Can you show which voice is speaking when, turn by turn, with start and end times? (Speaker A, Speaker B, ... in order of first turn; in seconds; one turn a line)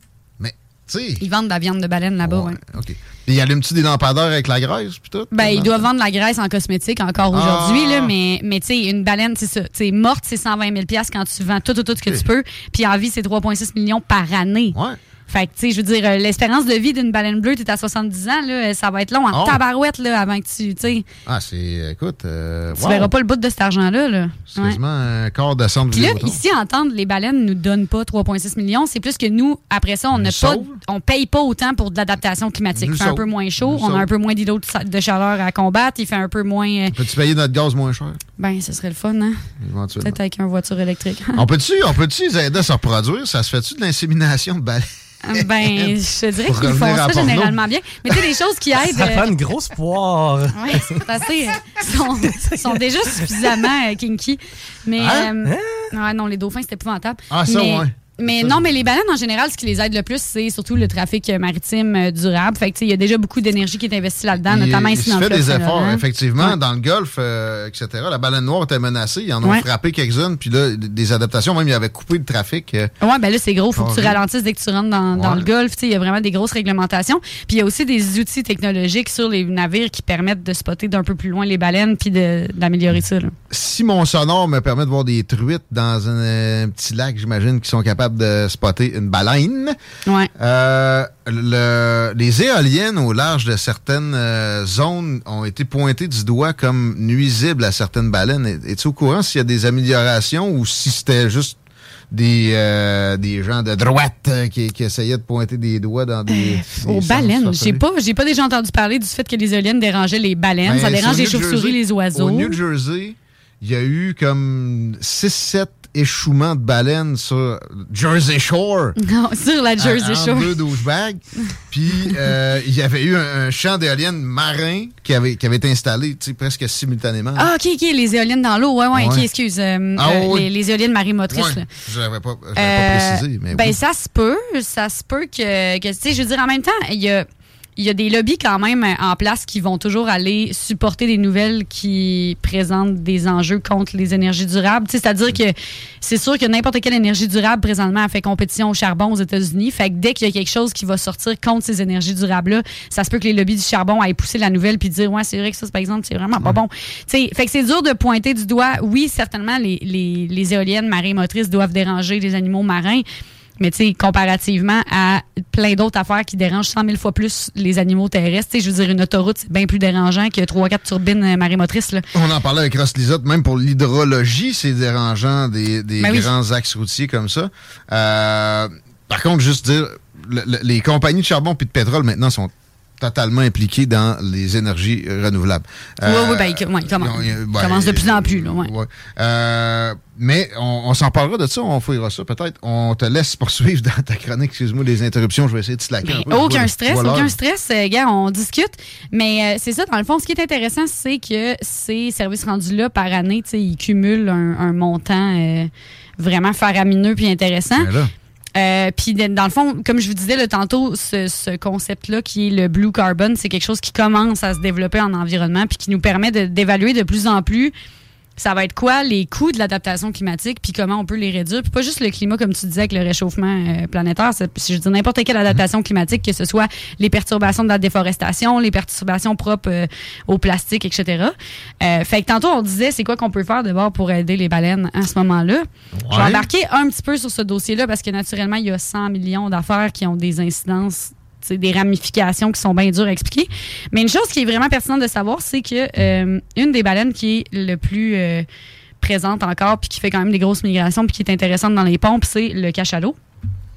Speaker A: 0.4-1.3
Speaker B: 1.2-2.6
Speaker A: 2.2-5.9
Speaker B: 5.3-14.8
Speaker A: 7.3-8.2
Speaker A: 14.7-15.0
Speaker B: 15.3-21.1
Speaker A: 19.3-19.6
Speaker A: 21.3-23.1
Speaker B: 22.8-24.8
Speaker A: 24.5-26.4
Speaker B: 25.9-37.0
Speaker A: 30.1-30.8
Speaker A: 32.7-34.1
Speaker A: 36.9-38.2
Speaker B: 38.4-39.5
Speaker A: 39.6-40.2
Speaker B: 40.0-41.4
Speaker A: 41.4-48.3
Speaker B: 45.2-49.3
Speaker C: 48.8-51.1
Speaker B: 50.5-66.5
Speaker C: 52.3-53.7
Speaker A: 55.0-55.3
Speaker C: 55.5-55.9
Speaker A: 57.3-58.7
Speaker A: 64.4-72.9
Speaker B: 73.0-83.4
Speaker A: 73.7-74.2
Speaker A: 75.1-75.5
Speaker A: 83.5-89.8
Speaker A: 90.3-101.6
Speaker A: 102.1-107.8
Speaker B: 106.3-112.6
Speaker A: 110.6-119.0
Speaker B: 119.0-120.5
Speaker A: 119.8-127.5
Speaker B: 127.4-131.7
Speaker A: 128.9-129.3
Speaker A: 130.0-130.5
Speaker A: 131.3-133.8
Speaker B: 132.6-137.3
Speaker B: 137.8-163.1
Speaker B: 163.6-172.1
Speaker A: 172.1-197.4
Speaker B: 176.0-176.3
Speaker B: 186.0-188.7
Speaker B: 196.1-207.9
Speaker A: 207.8-208.1
Speaker B: 208.6-217.7
Speaker B: 218.4-248.5
Speaker A: 236.0-236.5
Speaker B: 249.0-253.2